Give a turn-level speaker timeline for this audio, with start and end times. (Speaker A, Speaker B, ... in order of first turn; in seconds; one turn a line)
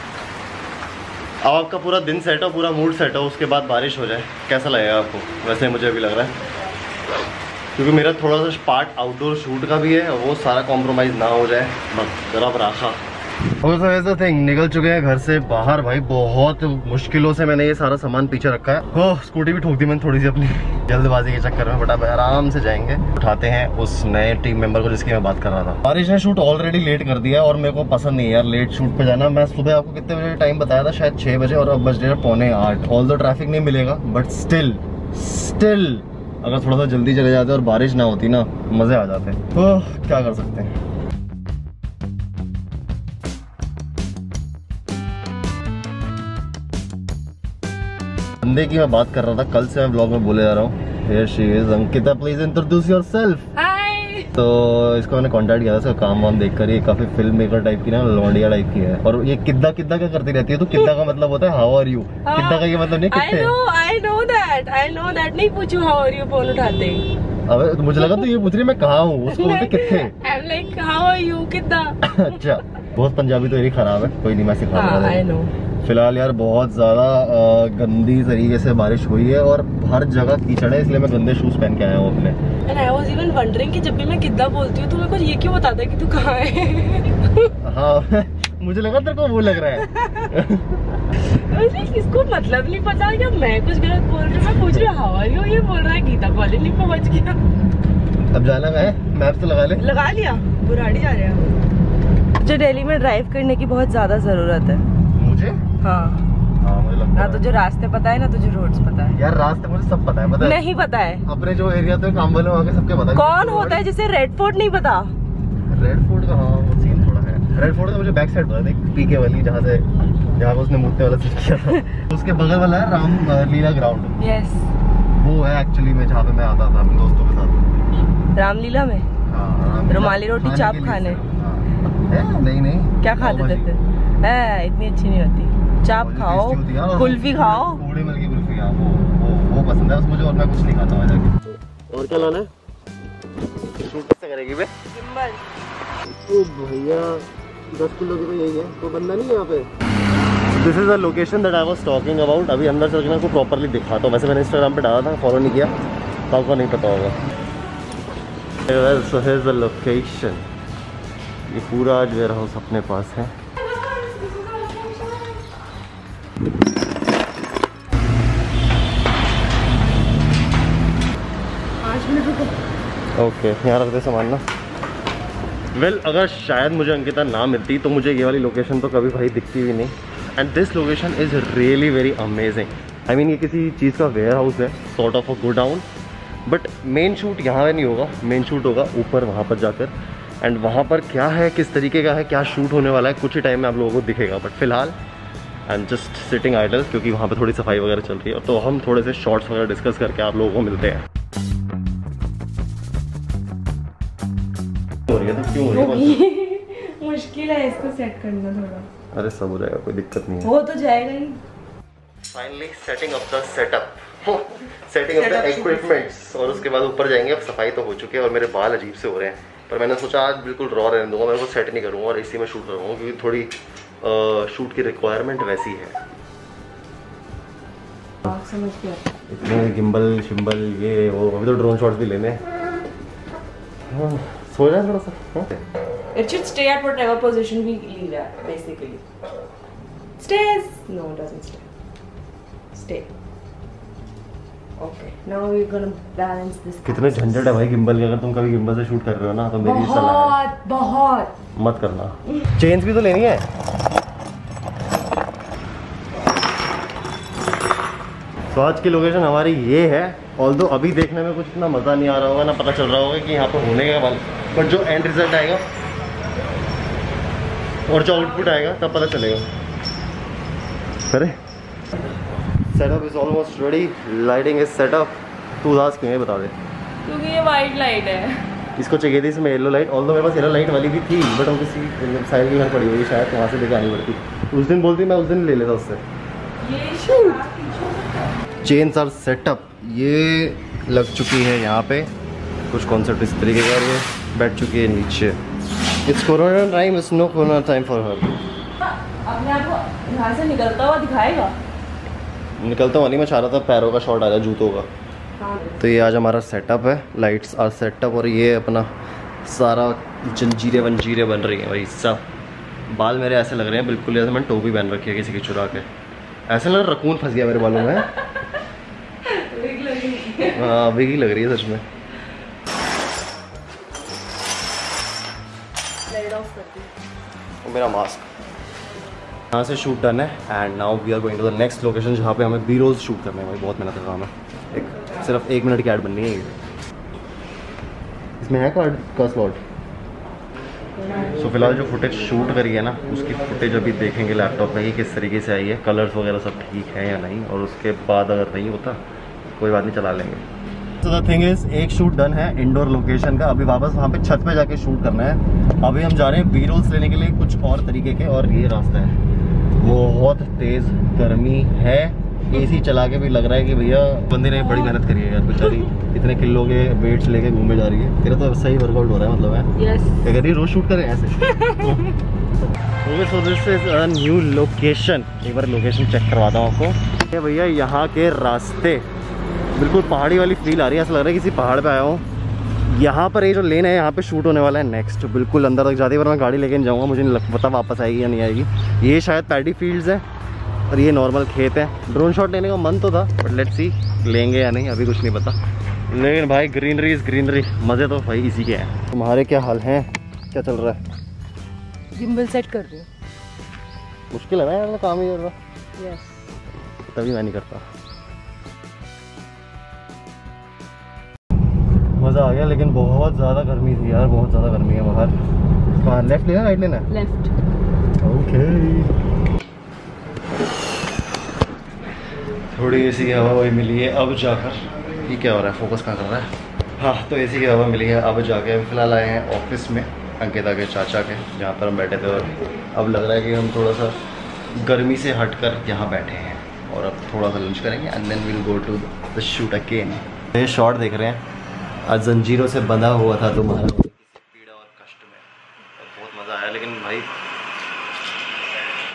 Speaker A: 1.4-6.4
Speaker A: 7.7-13.0
Speaker A: 13.6-40.7
Speaker A: 48.4-53.5
Speaker B: 53.5-54.3
Speaker A: 54.3-63.5
Speaker B: 62.2-67.0
Speaker A: 67.5-70.1
Speaker B: 68.0-68.3
Speaker B: 69.3-72.5
Speaker A: 72.0-75.2
Speaker B: 74.7-75.5
Speaker A: 75.8-82.4
Speaker B: 82.7-87.5
Speaker A: 87.6-91.0
Speaker B: 89.9-90.3
Speaker B: 91.2-97.4
Speaker A: 98.3-99.8
Speaker B: 99.8-101.5
Speaker B: 102.4-104.9
Speaker A: 105.1-105.6
Speaker B: 105.8-106.2
Speaker A: 106.6-107.4
Speaker B: 107.1-109.2
Speaker A: 109.1-110.6
Speaker B: 110.4-111.2
Speaker A: 111.2-113.8
Speaker B: 113.1-115.1
Speaker A: 115.7-124.2
Speaker B: 124.2-124.7
Speaker A: 125.2-127.7
Speaker B: 128.3-129.1
Speaker A: 129.3-133.7
Speaker B: 129.9-131.2
Speaker B: 133.0-137.8
Speaker A: 135.9-142.5
Speaker A: 143.7-144.7
Speaker B: 144.9-145.4
Speaker A: 146.2-149.7
Speaker A: 150.5-155.7
Speaker A: 156.3-157.2
Speaker A: 158.7-160.4
Speaker A: 161.5-163.3
Speaker B: 164.1-165.3
Speaker B: 171.8-172.6
Speaker A: 173.2-174.4
Speaker A: 175.7-185.8
Speaker A: 186.4-194.9
Speaker A: 195.7-201.1
Speaker A: 205.1-206.2
Speaker B: 205.6-208.9
Speaker A: 209.1-210.5
Speaker B: 210.4-211.4
Speaker A: 212.2-225.9
Speaker B: 215.2-216.1
Speaker B: 228.2-229.1
Speaker A: 229.3-232.4
Speaker A: 233.9-235.6
Speaker B: 236.1-239.0
Speaker B: 240.2-241.6
Speaker B: 242.7-243.1
Speaker B: 244.8-247.5
Speaker A: 246.8-250.4
Speaker B: 249.6-251.3
Speaker A: 251.6-253.5
Speaker A: 258.5-265.7
Speaker A: 267.9-269.5
Speaker B: 268.1-268.5
Speaker A: 271.1-271.4
Speaker A: 272.7-276.6
Speaker B: 277.1-278.5
Speaker A: 278.8-286.0
Speaker B: 286.6-288.4
Speaker A: 288.6-292.1
Speaker A: 292.7-295.4
Speaker A: 296.1-298.4
Speaker B: 298.9-301.6
Speaker A: 302.6-304.9
Speaker B: 305.4-305.8
Speaker A: 305.8-308.9
Speaker A: 309.4-312.2
Speaker A: 312.9-315.9
Speaker A: 316.5-318.1
Speaker B: 319.2-320.8
Speaker A: 320.5-321.8
Speaker B: 326.1-326.9
Speaker A: 327.6-328.3
Speaker A: 329.5-336.6
Speaker A: 338.4-339.6
Speaker A: 341.3-349.0
Speaker A: 349.6-350.4
Speaker A: 351.0-359.2
Speaker A: 359.8-369.7
Speaker B: 364.5-364.9
Speaker B: 365.6-365.9
Speaker B: 369.8-370.2
Speaker A: 370.2-372.1
Speaker B: 371.4-372.1
Speaker A: 373.0-379.1
Speaker A: 379.7-382.2
Speaker A: 382.9-390.2
Speaker A: 390.9-395.6
Speaker A: 396.1-401.0
Speaker B: 402.1-403.1
Speaker A: 404.3-405.6
Speaker B: 406.0-406.3
Speaker A: 407.1-407.9
Speaker A: 412.2-415.4
Speaker A: 416.0-417.1
Speaker B: 417.1-417.5
Speaker A: 418.2-419.1
Speaker A: 422.7-441.4
Speaker A: 442.1-445.4
Speaker A: 445.9-447.3